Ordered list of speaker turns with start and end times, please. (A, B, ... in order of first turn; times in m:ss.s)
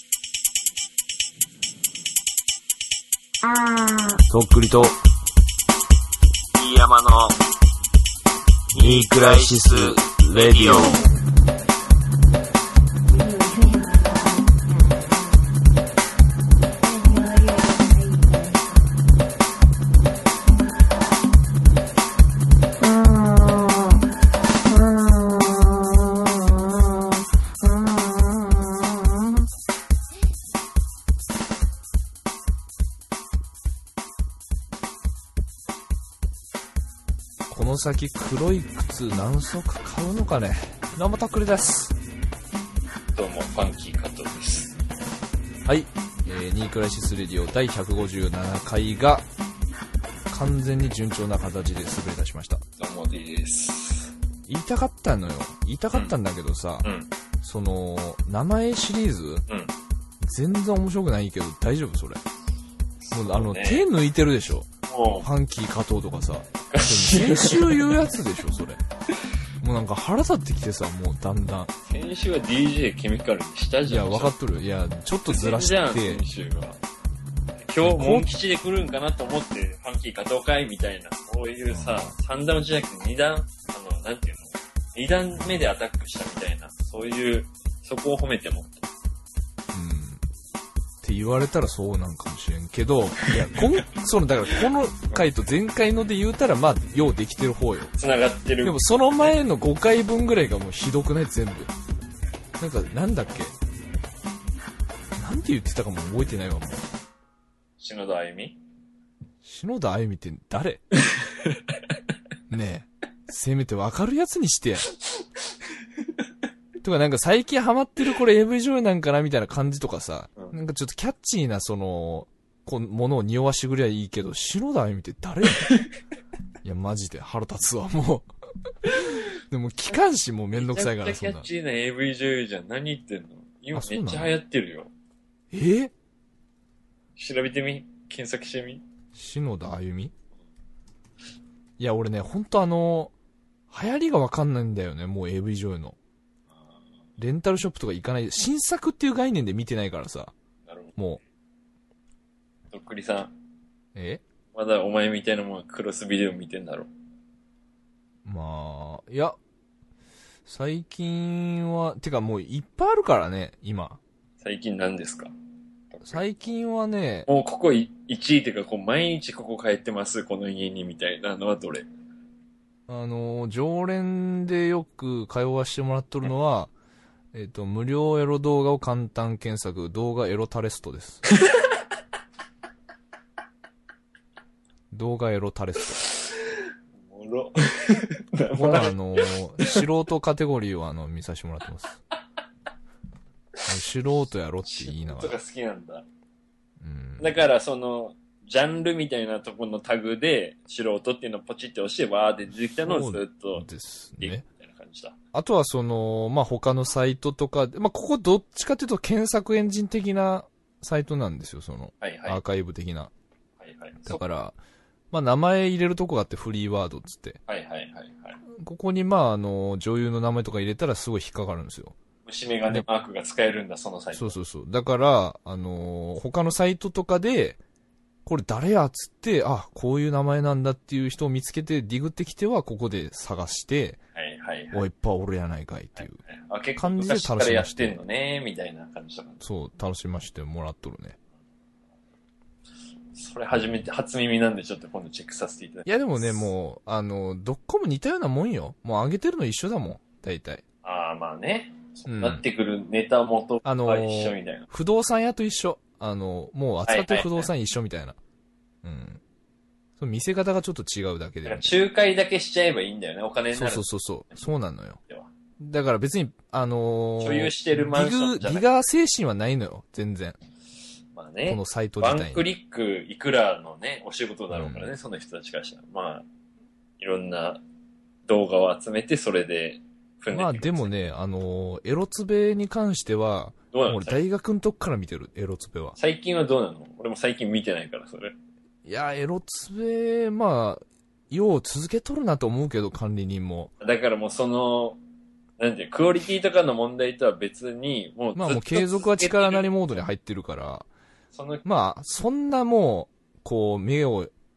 0:03.4-0:04.3 A
0:04.3-0:05.0 B
0:06.6-0:07.4 C
0:08.7-0:11.0 C
0:08.7-0:11.0 B
0:10.7-0:11.0 A
0:13.1-0:15.7 A
0:16.8-0:19.1 A
0:22.8-0:24.1 A
0:24.6-0:29.5 A
0:37.5-0:42.0 B
0:43.2-0:44.8 C
0:45.6-0:49.3 B
0:50.3-0:52.6 B
0:52.8-0:54.1 C
0:54.5-0:56.9 B
0:56.8-0:57.1 C
0:57.4-0:59.4 B
0:59.5-0:59.8 C
1:00.2-1:02.2 B
1:03.0-1:03.9 C
1:03.1-1:04.7 B
1:04.9-1:05.3 C
1:05.2-1:08.8 B
1:06.7-1:07.9 C
1:09.6-1:11.7 B
1:11.9-1:14.3 C
1:13.8-1:16.2 B
1:15.3-1:16.8 C
1:17.6-1:28.9 C
1:17.8-1:18.3 B
1:21.7-1:22.1 B
1:29.7-1:30.2 B
1:31.0-1:37.9 B
1:33.2-1:33.6 C
1:34.5-1:35.3 C
1:38.0-1:39.3 C
1:38.6-1:41.7 B
1:42.6-1:43.6 B
1:45.2-1:46.9 B
1:47.8-1:48.6 C
1:49.4-1:50.8 B
1:51.1-1:51.6 C
1:52.5-1:54.9 B
1:56.8-2:05.7 B
2:05.6-2:05.9 C
2:06.6-2:08.3 B
2:08.8-2:11.5 B
2:10.6-2:14.9 C
2:13.7-2:14.3 B
2:15.5-2:15.9 B
2:17.2-2:18.8 C
2:19.2-2:20.1 B
2:21.8-2:23.1 B
2:23.7-2:26.0 B
2:27.2-2:30.3 B
2:30.7-2:30.9 C
2:32.7-2:33.3 C
2:34.0-2:34.2 B
2:34.5-2:36.9 C
2:38.2-2:39.4 B
2:40.5-2:44.0 B
2:44.4-2:45.3 C
2:45.9-2:46.2 C
2:46.0-2:47.3 B
2:47.3-2:51.9 C
2:52.9-2:56.7 B
2:57.3-3:01.2 B
3:01.3-3:01.7 C
3:04.9-3:06.0 B
3:06.0-3:06.6 C
3:07.1-3:09.8 C
3:08.6-3:12.0 B
3:13.7-3:15.4 B
3:14.7-3:16.1 C
3:16.8-3:17.4 B
3:17.2-3:23.7 C
3:22.8-3:24.4 B
3:24.2-3:25.2 C
3:25.3-3:33.1 B
3:32.0-3:32.4 C
3:33.6-3:34.2 C
3:34.1-3:34.6 B
3:35.1-3:37.4 B
3:37.5-3:38.4 C
3:38.5-3:42.0 B
3:42.3-3:44.4 C
3:44.2-3:47.6 B
3:48.3-3:54.0 B
3:54.2-3:54.8 C
3:54.7-3:56.2 B
3:56.0-3:59.4 C
3:56.8-3:58.0 B
3:59.4-4:01.2 B
4:03.1-4:06.5 C
4:05.9-4:10.6 B
4:10.8-4:14.7 C
4:12.1-4:12.4 B
4:13.6-4:18.2 B
4:16.9-4:17.5 C
4:18.8-4:19.2 B
4:20.0-4:21.7 B
4:21.4-4:24.4 C
4:23.5-4:25.0 B
4:25.6-4:30.4 B
4:27.2-4:28.7 C
4:31.1-4:36.3 C
4:31.5-4:32.5 B
4:34.5-4:34.9 B
4:37.0-4:37.6 C
4:38.3-4:40.9 C
4:40.3-4:46.0 B
4:43.7-4:44.2 C
4:46.0-4:48.4 C
4:48.9-4:53.7 B
4:53.8-4:55.0 C
4:55.6-5:00.0 C
4:58.4-5:00.9 B
5:01.3-5:01.6 C
5:01.6-5:04.3 B